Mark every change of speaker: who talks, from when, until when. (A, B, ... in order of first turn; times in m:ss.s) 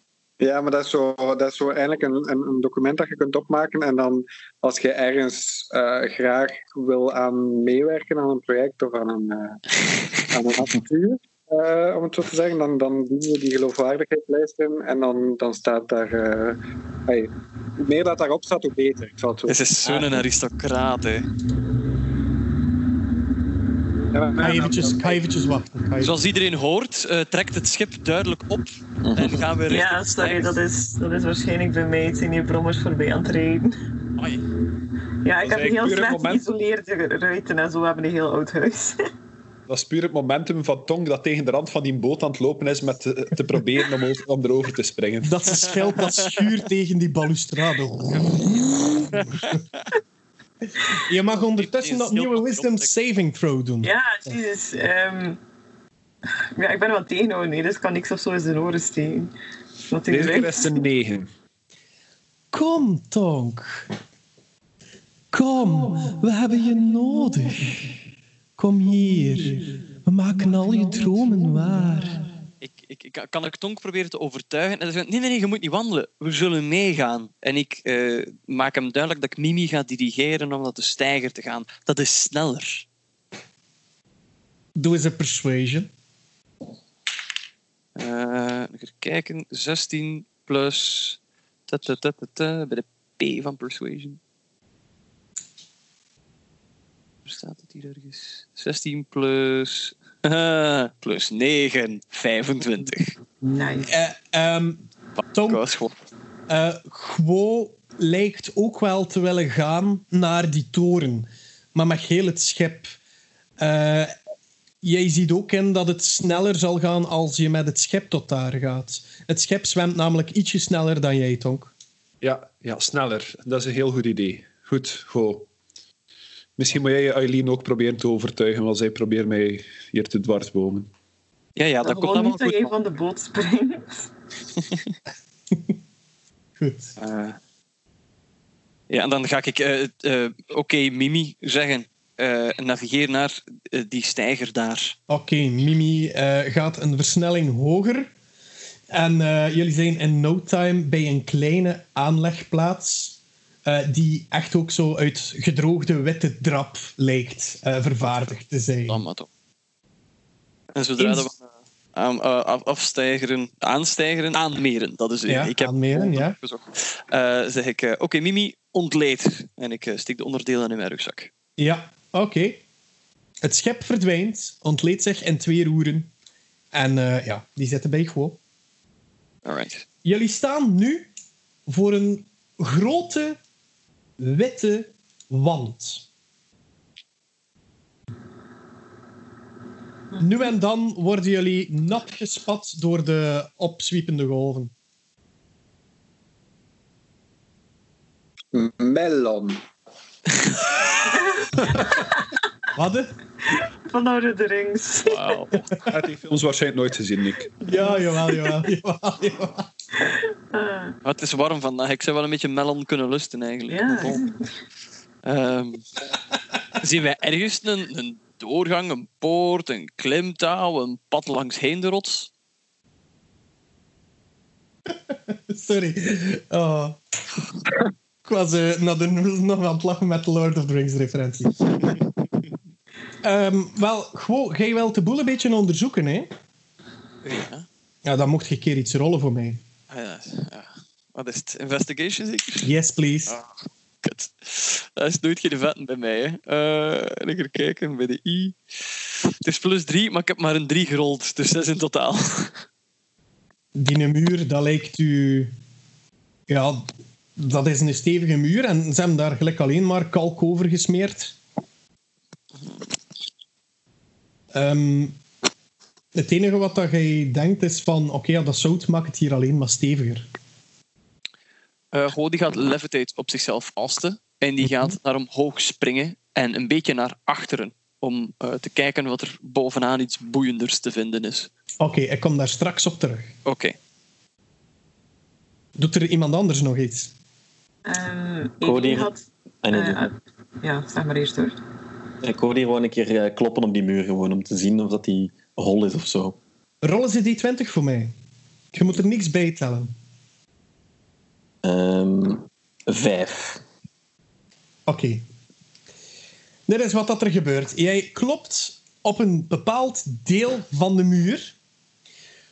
0:00.4-0:09.6 A
0:10.2-0:20.3 A
0:19.5-0:21.3 B
0:24.1-0:25.2 A
0:24.4-0:26.1 C
0:26.0-0:30.6 B
0:29.0-0:29.5 D
0:29.7-0:33.8 E
0:34.2-0:34.4 B
0:35.2-0:39.0 E
0:35.4-0:36.5 F
0:39.7-0:45.8 F
0:45.2-0:49.6 C
0:51.0-0:53.9 C
0:51.4-0:52.9 B
0:53.8-0:55.4 E
0:56.6-0:59.3 E
0:59.9-1:00.8 E
1:00.1-1:01.3 F
1:02.5-1:03.9 C
1:05.3-1:07.8 C
1:08.6-1:12.3 C
1:12.6-1:22.9 B
1:24.8-1:25.9 C
1:28.0-1:34.2 B
1:37.2-1:43.2 B
1:43.4-1:43.9 E
1:43.9-1:45.6 C
1:45.2-1:46.0 B
1:46.5-1:52.9 C
1:53.6-1:54.2 C
1:54.8-2:01.7 C
2:02.2-2:05.5 F
2:06.6-2:10.9 F
2:11.6-2:12.8 B
2:11.8-2:14.1 E
2:16.6-2:16.9 C
2:17.0-2:17.4 B
2:18.9-2:25.0 B
2:25.1-2:28.1 C
2:28.9-2:39.0 C
2:38.9-2:39.3 B
2:40.8-2:51.3 B
2:41.0-2:41.3 C
2:45.3-2:46.4 C
2:51.6-2:52.6 C
2:53.4-2:56.1 C
2:56.7-2:58.4 C
2:59.4-2:59.8 B
3:00.0-3:01.1 C
3:01.7-3:03.4 C
3:04.2-3:06.1 C
3:10.2-3:14.7 C
3:18.5-3:19.6 A
3:21.4-3:22.2 E
3:22.8-3:23.2 C
3:23.5-3:25.4 E
3:25.1-3:25.6 B
3:25.9-3:27.5 F
3:27.6-3:29.7 C
3:27.7-3:28.6 E
3:30.1-3:31.0 E
3:31.0-3:34.3 B
3:33.7-3:34.5 E
3:35.2-3:35.8 B
3:36.8-3:42.3 B
3:45.1-3:47.0 C
3:48.2-3:51.6 C
3:53.2-3:56.3 C
3:57.2-3:57.7 B
3:58.0-3:59.6 C
3:59.9-4:02.7 B
4:02.6-4:03.4 C
4:03.3-4:12.6 B
4:13.8-4:15.5 C
4:16.5-4:16.9 C
4:17.4-4:21.4 C
4:24.5-4:25.2 C
4:26.1-4:30.3 C
4:31.9-4:41.5 B
4:41.8-4:43.3 C
4:43.4-4:43.8 B
4:45.8-4:47.1 C
4:47.9-4:51.6 E
4:48.6-4:49.1 D
4:49.6-4:50.1 D
4:52.2-4:56.4 D
4:56.8-4:58.1 C
4:58.7-4:59.9 C
5:01.6-5:03.6 D
5:04.9-5:05.2 C
5:06.7-5:11.6 C